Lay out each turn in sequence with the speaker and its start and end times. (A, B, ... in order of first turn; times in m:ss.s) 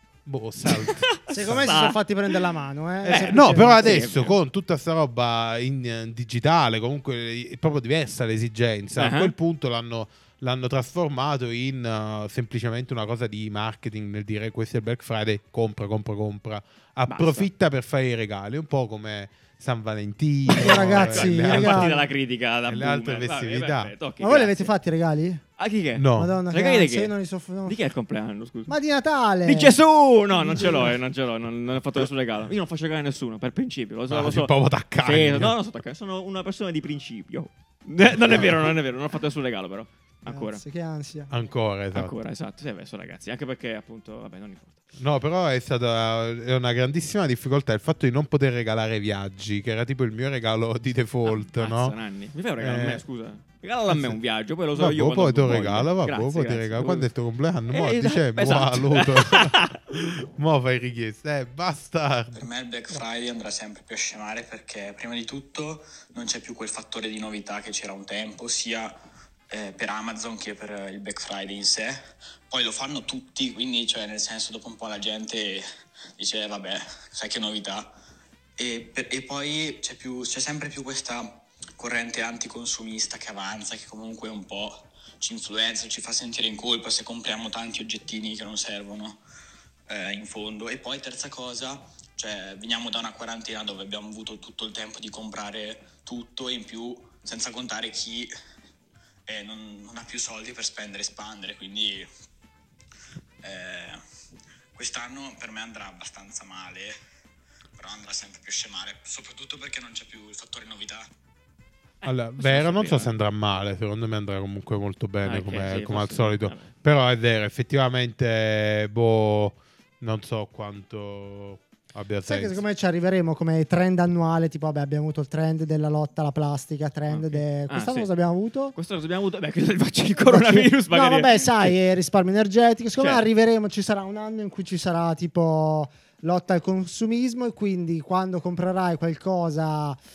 0:00.3-0:01.8 A
0:00.7-0:02.0 B
0:01.3-0:04.0 C
0:03.0-0:04.4 B
0:03.0-0:21.9 A
0:09.0-0:09.4 B
0:17.1-0:17.5 B
0:20.5-0:24.7 B
0:20.6-0:22.0 C
0:22.7-0:23.9 A
0:24.2-0:25.4 C
0:25.6-0:27.1 B
0:26.0-0:26.4 A
0:26.2-0:27.8 C
0:27.6-0:28.8 B
0:28.7-0:29.8 C
0:29.4-0:40.6 B
0:30.3-0:31.0 C
0:34.1-0:35.6 A
0:38.2-0:38.7 A
0:40.3-0:41.3 C
0:41.3-0:42.1 A
0:41.9-0:44.8 B
0:45.0-0:52.0 A
0:51.3-0:57.1 B
0:52.6-0:53.0 A
0:53.9-0:54.2 A
0:54.8-1:02.4 A
0:57.7-0:59.8 B
1:02.3-1:09.0 D
1:09.5-1:12.0 D
1:12.5-1:15.7 D
1:16.2-1:17.9 D
1:18.6-1:29.2 D
1:29.9-1:38.3 D
1:39.3-1:42.1 D
1:43.4-1:44.0 D
1:44.8-1:47.0 D
1:47.8-1:51.1 D
1:52.0-1:53.1 B
1:52.0-2:02.6 A
1:55.2-1:56.7 B
2:02.3-2:08.7 C
2:07.1-2:08.1 B
2:08.7-2:11.8 B
2:10.3-2:20.0 C
2:13.0-2:13.2 B